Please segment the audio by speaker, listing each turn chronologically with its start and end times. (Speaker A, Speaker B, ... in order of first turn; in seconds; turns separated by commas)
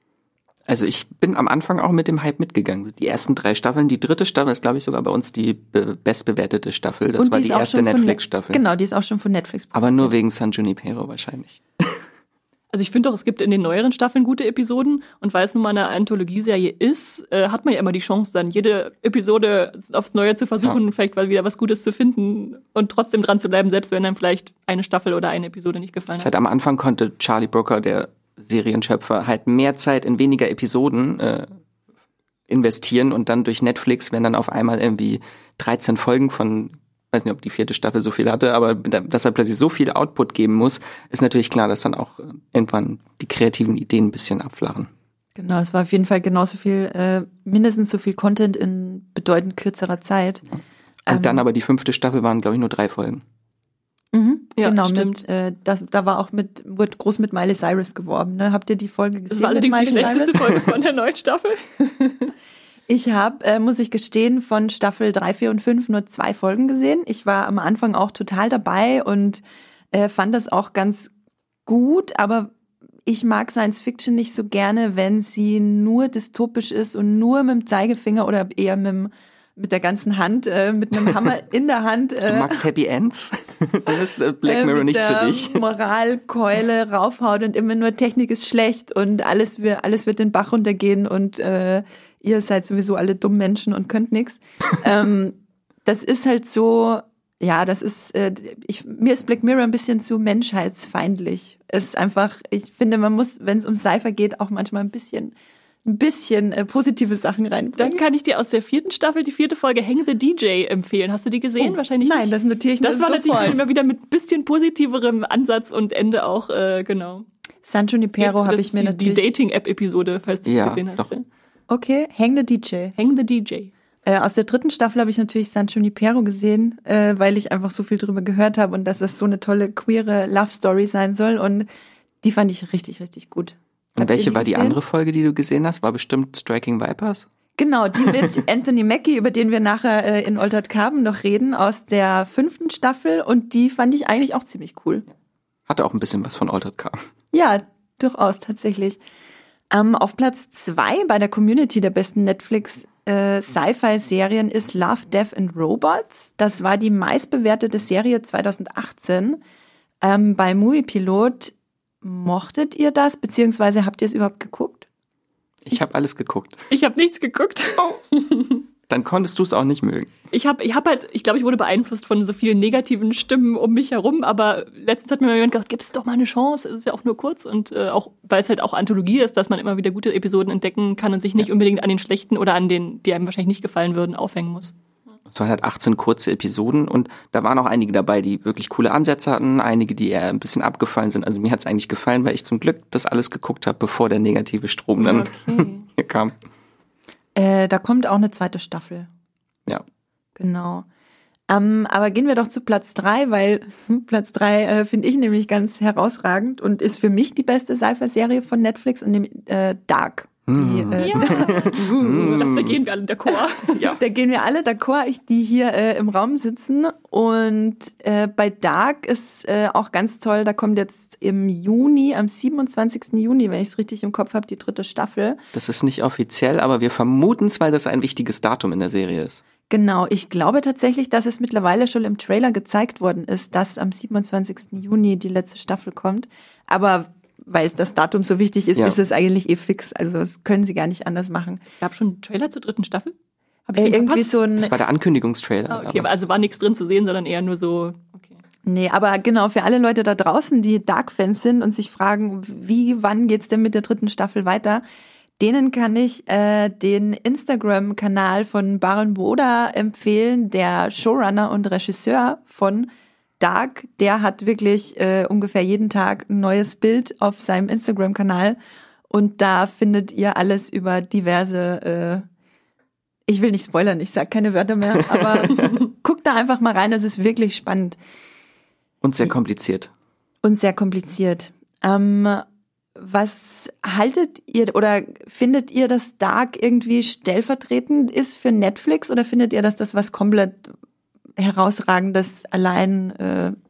Speaker A: 0.7-8.6, Speaker B: 7.2-10.1, Speaker A: 9.7-12.0, Speaker C: 12.7-26.3, Speaker A: 26.1-31.5, Speaker A: 32.5-44.9, Speaker B: 45.4-50.5, Speaker A: 51.1-53.2, Speaker B: 51.1-51.4, Speaker B: 54.1-60.6, Speaker C: 54.6-55.2, Speaker C: 59.3-62.3, Speaker B: 62.9-71.1, Speaker B: 71.7-72.5, Speaker B: 73.0-82.6, Speaker A: 82.2-85.6, Speaker B: 84.4-105.3, Speaker B: 105.8-108.0, Speaker C: 107.8-117.2, Speaker B: 111.6-113.6, Speaker B: 117.7-119.3, Speaker C: 118.2-121.2, Speaker A: 120.4-121.1, Speaker B: 121.7-122.9, Speaker C: 123.0-123.7, Speaker B: 124.0-131.7, Speaker B: 132.2-134.8, Speaker A: 134.0-137.3, Speaker B: 137.6-145.0, Speaker A: 145.7-147.0, Speaker B: 147.3-149.0, Speaker B: 149.7-159.4, Speaker B: 160.0-164.9, Speaker A: 165.7-166.6, Speaker C: 166.7-168.6, Speaker A: 168.9-170.1, Speaker C: 170.3-184.7, Speaker A: 185.3-196.3, Speaker C: 195.0-195.8, Speaker B: 197.3-199.1, Speaker B: 200.3-200.8, Speaker B: 201.5-212.2, Speaker A: 210.5-212.8, Speaker C: 211.0-213.8, Speaker A: 213.7-214.0, Speaker B: 214.0-225.4, Speaker A: 225.5-229.4, Speaker B: 229.7-241.6, Speaker C: 241.7-243.1, Speaker C: 243.7-244.4, Speaker B: 243.8-244.7, Speaker A: 244.6-246.2, Speaker C: 245.7-248.4, Speaker B: 248.7-254.8, Speaker B: 255.4-262.9, Speaker B: 263.4-268.6, Speaker B: 269.1-272.2, Speaker B: 273.3-278.0, Speaker A: 275.1-275.8, Speaker A: 279.0-279.9, Speaker B: 280.4-282.4, Speaker B: 282.9-290.7, Speaker B: 291.4-293.6